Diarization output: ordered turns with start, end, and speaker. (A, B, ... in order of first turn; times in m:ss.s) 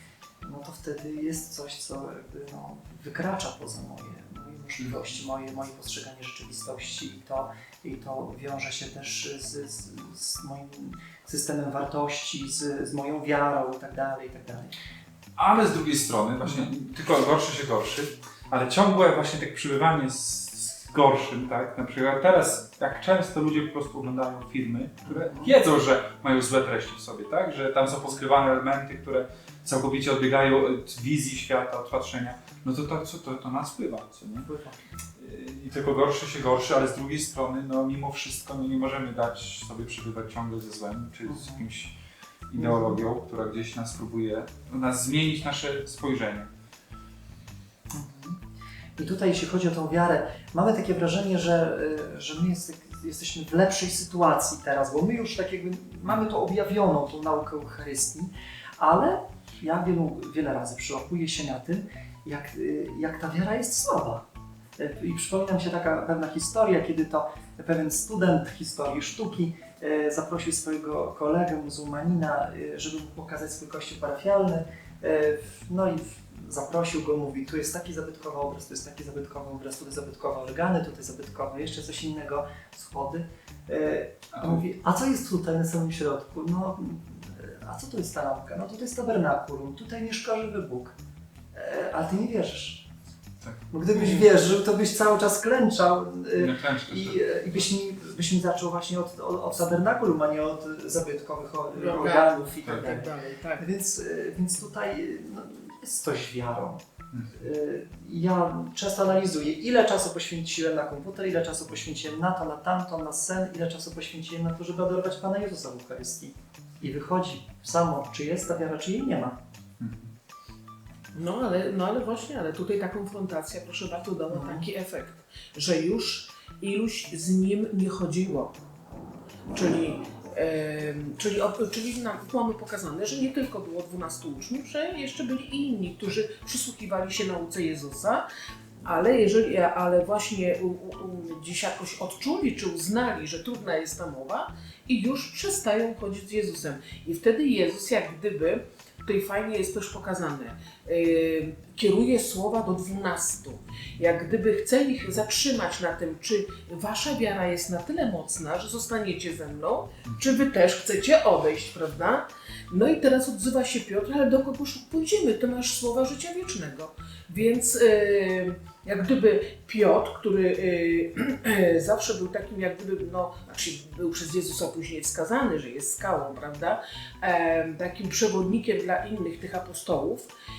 0:00.4-0:14.7 A
0:15.4-0:34.5 B
0:25.1-0:25.6 A
0:34.4-0:34.8 A
0:35.2-0:42.0 B
0:41.2-0:41.7 A
0:42.5-0:46.5 B
0:42.6-0:43.0 A
0:47.9-0:48.4 A
0:49.0-1:04.3 A
1:04.8-1:30.9 A
1:31.5-1:32.9 A
1:33.7-1:46.8 A
1:36.4-1:37.6 B
1:41.8-1:43.7 C
1:47.1-1:47.4 B
1:47.4-1:59.4 A
1:59.8-2:00.1 B
2:01.1-2:08.6 C
2:04.3-2:04.7 A
2:09.5-2:18.2 C
2:18.8-3:00.3 C